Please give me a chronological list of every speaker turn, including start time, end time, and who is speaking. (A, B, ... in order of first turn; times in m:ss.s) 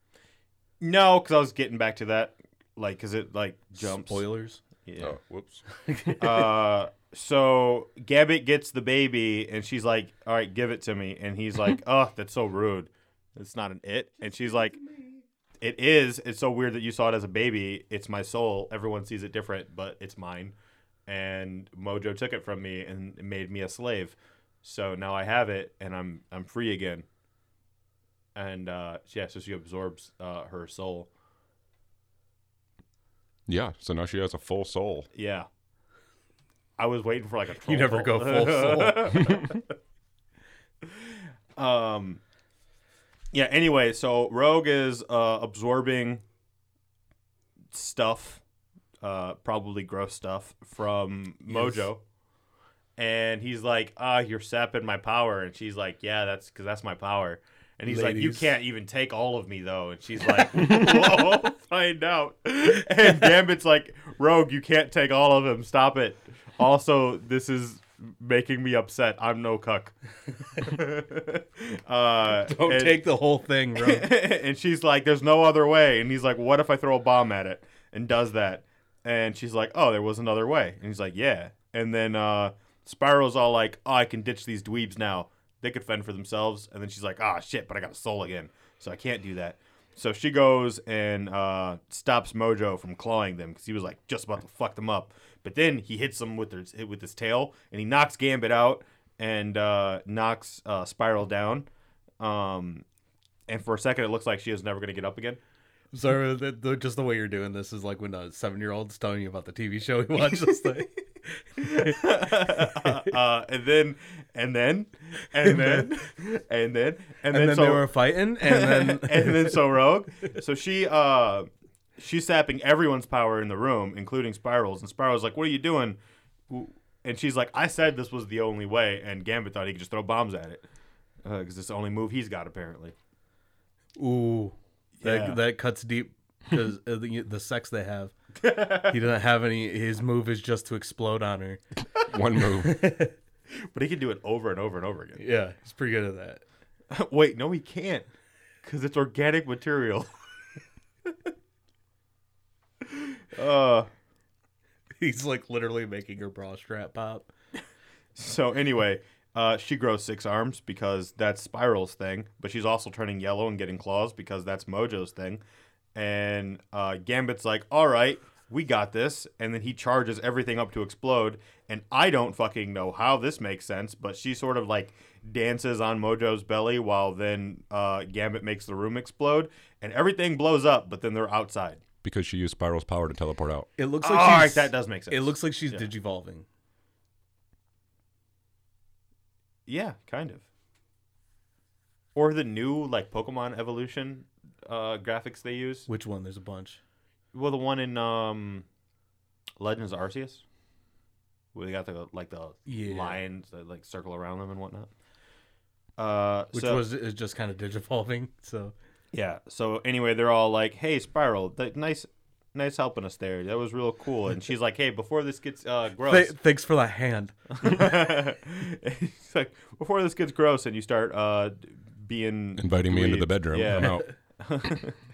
0:00.8-0:04.2 A
0:03.8-0:04.6 B
0:04.8-0:05.2 A
0:05.0-0:05.6 C
0:05.7-0:06.5 B
0:06.2-0:14.8 A
0:14.4-0:15.2 B
0:15.6-0:20.5 A
0:21.1-0:27.0 A
0:28.3-0:31.1 A
0:33.5-0:35.1 C
0:35.1-0:35.5 A
0:36.8-0:39.6 A
0:37.6-0:39.2 B
0:41.6-0:42.2 A
0:43.3-0:46.2 A
0:47.7-0:48.4 A
0:49.0-0:52.0 A
0:51.5-0:51.8 B
0:53.0-1:09.9 A
0:57.9-0:58.5 B
1:10.5-1:13.0 A
1:12.4-1:14.1 B
1:13.8-1:41.6 A
1:42.2-1:42.8 A
1:43.5-1:45.4 A
1:45.9-1:53.1 B
1:51.6-2:06.0 A
1:55.4-1:55.8 B
1:57.3-1:59.6 B
2:06.5-2:10.6 A
2:11.2-2:12.9 A
2:14.0-2:18.1 B
2:15.0-2:15.4 A
2:18.4-2:18.9 A
2:18.7-2:21.6 B
2:22.0-2:22.8 C
2:22.6-2:23.1 B
2:23.6-2:25.2 A
2:25.2-2:26.4 B
2:26.9-2:28.1 A
2:28.6-2:30.1 A
2:32.8-2:33.9 A
2:35.0-2:37.3 B
2:38.1-2:45.4 A
2:45.9-3:01.8 A
3:02.0-3:03.7 C
3:03.8-3:06.4 B
3:04.0-3:05.9 A
3:09.7-3:10.4 A
3:12.1-3:15.9 A
3:15.9-3:16.8 B
3:17.3-3:18.6 A
3:19.6-3:20.4 A
3:21.5-3:24.9 A
3:22.7-3:23.2 B
3:26.0-3:26.8 A
3:26.5-3:28.7 B
3:29.1-3:36.3 A
3:36.1-3:37.5 B
3:37.6-3:45.0 A
3:42.6-3:44.1 C
3:43.8-3:44.1 B